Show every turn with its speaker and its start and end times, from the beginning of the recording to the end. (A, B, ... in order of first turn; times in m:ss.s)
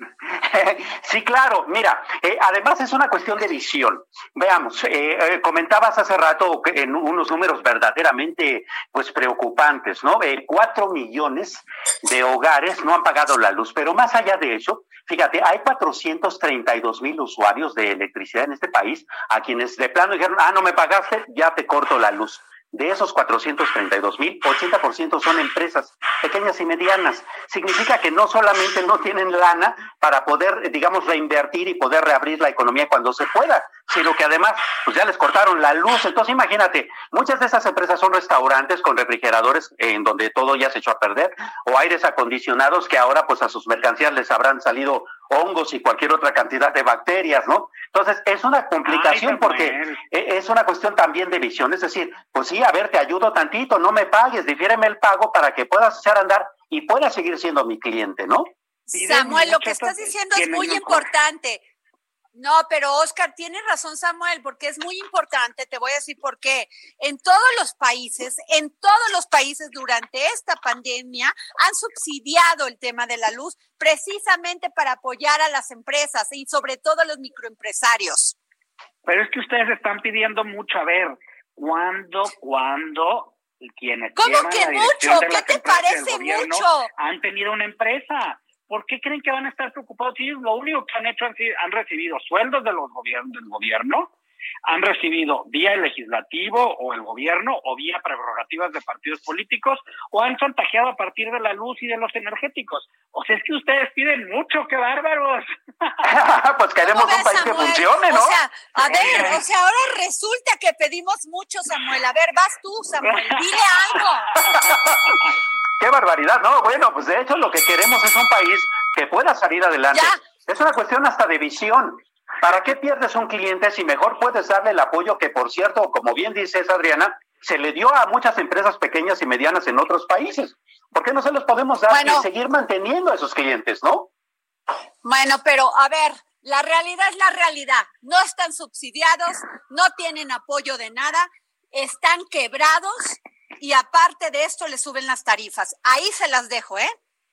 0:00.3-0:58.5 A
0:48.8-0:50.0 B
0:58.9-1:01.6 C
0:58.9-1:01.1 B
1:02.3-1:18.4 C
1:19.0-1:34.1 B
1:24.2-1:26.9 C
1:34.7-1:46.0 B
1:46.0-1:48.4 A
1:46.8-1:54.3 C
1:48.8-1:49.4 B
1:53.0-1:53.4 B
1:54.4-1:55.2 A
1:54.4-1:54.7 B
1:55.8-2:14.1 A
1:59.9-2:00.2 C
2:11.9-2:12.3 C
2:15.0-2:26.9 C